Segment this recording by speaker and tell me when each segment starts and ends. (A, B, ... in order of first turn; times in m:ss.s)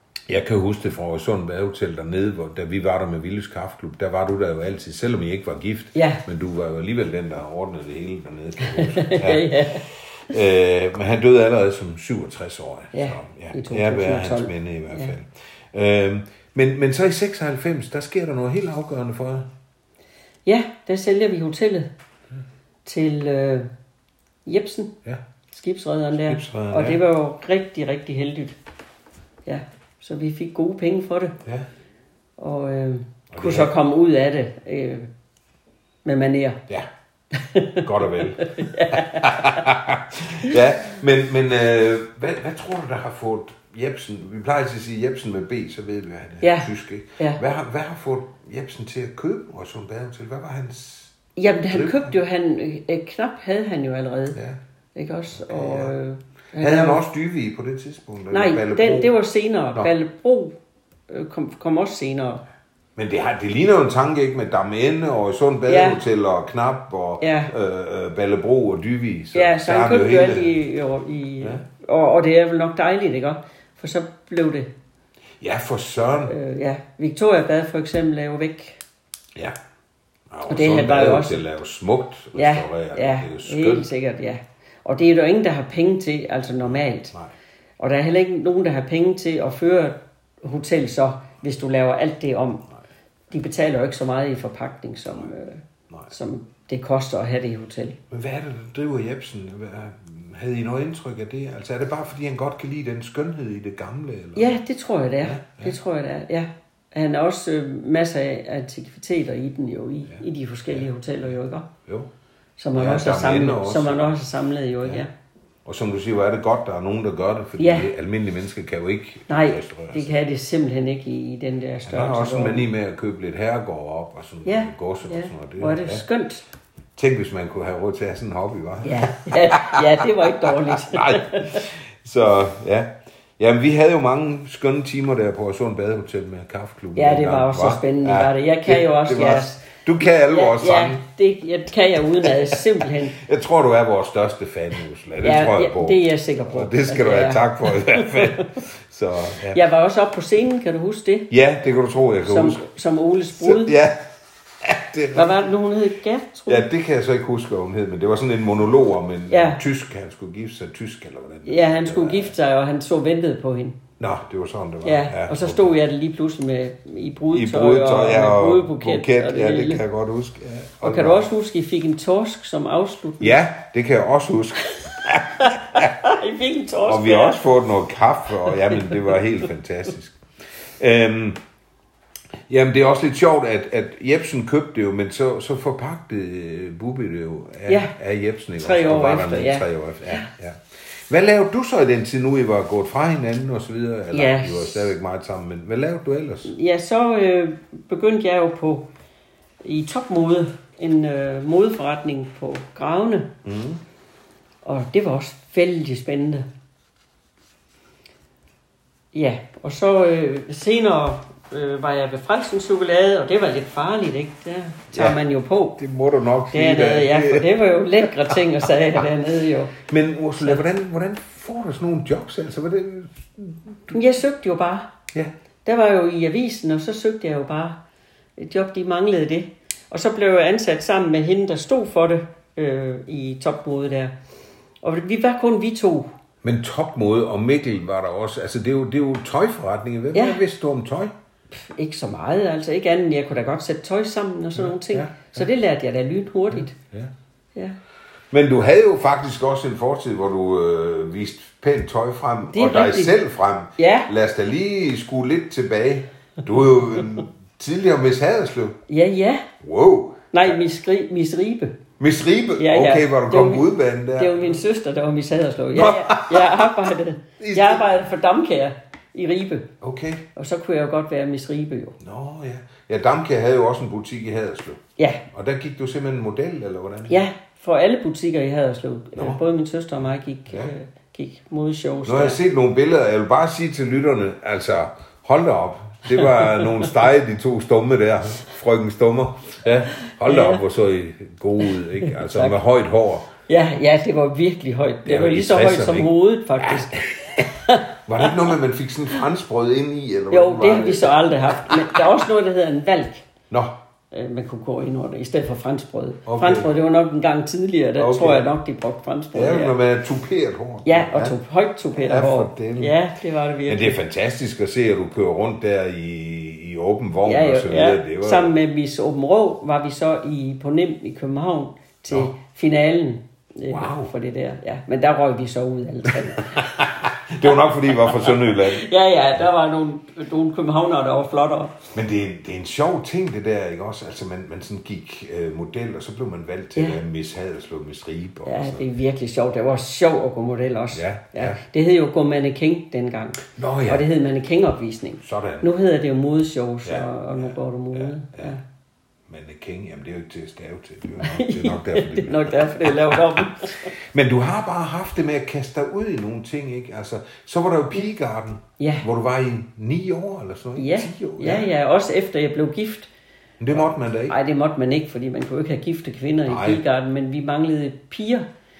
0:00.3-0:19.5 A
0:06.0-0:06.2 B
0:08.6-0:09.9 B
0:12.9-0:15.1 B
0:20.5-0:21.9 B
0:22.8-0:23.7 B
0:24.5-0:25.0 B
0:25.5-0:28.6 B
0:26.2-0:27.0 A
0:29.5-0:31.4 B
0:32.4-0:35.1 B
0:33.3-0:33.7 A
0:36.0-0:36.6 B
0:37.3-0:39.7 B
0:37.8-0:52.2 A
0:46.4-0:47.4 B
0:51.4-0:54.4 B
0:55.0-0:57.0 B
0:55.3-0:55.9 A
0:56.6-0:59.1 A
0:58.3-1:00.6 B
1:01.1-1:02.4 B
1:03.0-1:10.5 A
1:05.7-1:06.0 B
1:07.2-1:07.5 B
1:09.3-1:14.7 B
1:15.4-1:16.3 A
1:16.3-1:18.8 B
1:20.3-1:23.9 A
1:20.5-1:21.4 B
1:22.3-1:27.1 B
1:26.6-1:27.3 A
1:27.8-1:32.7 B
1:33.3-1:38.0 B
1:38.1-1:44.5 A
1:44.4-1:51.7 B
1:45.2-1:45.8 A
1:50.1-1:50.9 A
1:52.6-1:55.1 B
1:52.8-1:54.2 A
1:55.6-2:00.2 A
1:57.6-1:57.9 B
1:59.3-2:02.7 B
2:01.9-2:06.0 A
2:04.4-2:06.4 B
2:07.0-2:21.0 A
2:08.8-2:11.7 B
2:17.0-2:23.2 B
2:22.2-2:29.6 A
2:25.2-2:28.5 B
2:29.5-2:31.3 B
2:31.3-2:32.6 A
2:32.2-2:33.8 B
2:33.3-2:34.1 A
2:34.6-2:35.5 A
2:35.1-2:36.7 B
2:36.5-2:42.3 A
2:39.3-2:39.6 B
2:41.5-2:43.8 B
2:44.0-2:45.8 A
2:44.8-2:49.8 B
2:47.3-2:51.3 A
2:50.8-2:53.4 B
2:53.2-2:56.0 A
2:54.7-2:57.4 B
2:56.8-3:00.2 A
2:58.5-2:59.0 B
3:00.8-3:01.4 A
3:02.5-3:16.5 A
3:07.7-3:07.9 B
3:08.6-3:10.3 B
3:14.1-3:14.9 B
3:16.5-3:18.9 B
3:19.6-3:23.3 B
3:23.4-3:23.8 A
3:24.6-3:26.5 B
3:29.1-3:35.8 B
3:34.9-3:35.2 A
3:35.8-3:38.4 A
3:36.5-3:39.8 B
3:39.8-3:44.0 A
3:43.9-3:44.9 B
3:45.6-3:47.8 B
3:48.4-3:54.1 B
3:54.8-3:56.1 B
3:56.4-4:01.1 A
4:00.1-4:00.4 B
4:01.5-4:06.8 B
4:04.6-4:05.5 A
4:06.5-4:07.1 A
4:08.3-4:18.8 A
4:12.5-4:13.1 B
4:13.8-4:14.1 B
4:18.9-4:19.5 B
4:19.6-4:20.6 A
4:20.3-4:21.8 B
4:22.0-4:24.6 A
4:22.6-4:29.7 B
4:25.7-4:26.9 A
4:27.4-4:27.9 A
4:29.8-4:30.3 A
4:30.4-4:32.0 B
4:32.0-4:34.8 A
4:35.3-4:37.2 A
4:37.1-4:42.4 B
4:42.0-4:53.3 A
4:46.2-4:46.8 B
4:50.1-4:50.6 B
4:52.0-4:52.6 B
4:53.5-4:58.5 B
4:55.0-4:57.5 A
4:58.1-5:02.1 A
5:00.3-5:03.3 B
5:03.5-5:03.8 A
5:04.1-5:09.8 B
5:06.3-5:06.7 A
5:08.0-5:08.5 A
5:09.3-5:11.4 A
5:10.8-5:14.0 B
5:11.9-5:13.0 A
5:13.7-5:18.6 A
5:17.2-5:26.7 B
5:23.7-5:24.1 A
5:26.4-5:28.9 A
5:27.4-5:31.8 B
5:31.9-5:38.8 A
5:38.5-5:48.6 B
5:40.9-5:41.6 A
5:43.6-5:44.1 A
5:45.2-5:45.7 A
5:46.8-5:48.6 A
5:49.3-6:01.7 A
5:51.2-5:53.9 B
5:58.8-5:59.0 B
6:00.8-6:03.1 B
6:03.6-6:04.4 A
6:03.8-6:08.5 B
6:06.5-6:06.8 A